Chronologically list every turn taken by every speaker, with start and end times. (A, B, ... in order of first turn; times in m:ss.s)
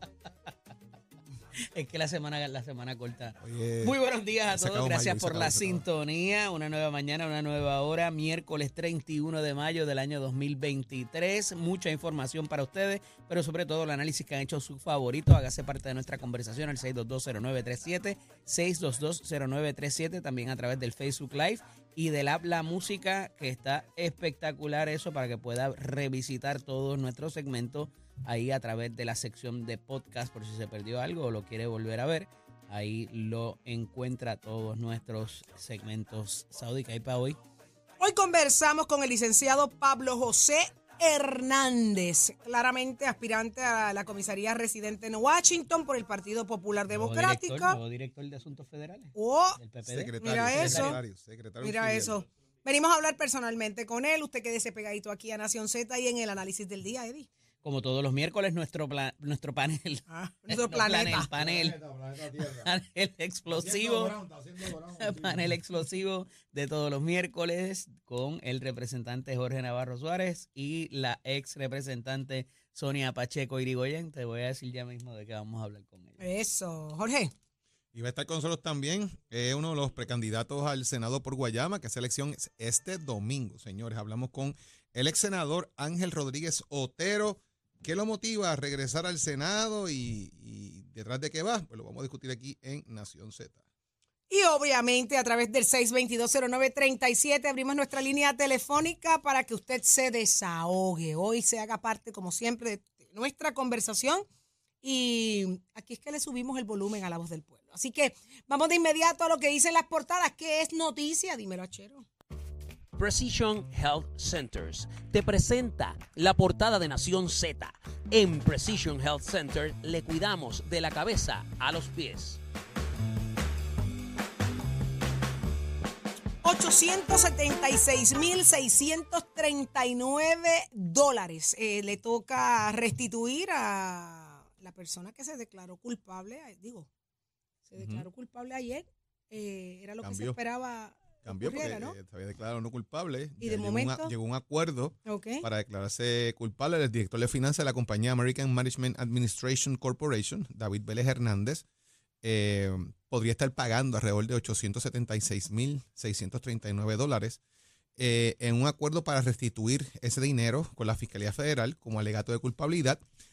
0:01.6-0:37.4 A
0:03.4-0:04.0 B
0:04.5-0:05.8 B
0:38.0-0:47.8 C
0:46.9-0:51.0 A
0:49.1-0:49.6 C
0:49.8-0:52.2 B
0:50.2-0:51.0 C
0:51.6-0:57.3 C
0:57.6-1:16.2 A
1:00.1-1:01.3 C
1:16.2-1:17.3 C
1:17.9-1:33.6 B
1:34.3-1:44.2 C
1:44.8-1:52.0 C
1:53.0-2:02.4 D
2:06.4-2:16.9 C
2:17.7-2:21.9 C
2:17.8-2:18.0 B
2:20.0-2:20.4 B
2:21.3-2:31.6 B
2:23.4-2:24.1 C
2:25.0-2:25.4 C
2:32.2-2:37.4 B
2:38.0-2:43.0 B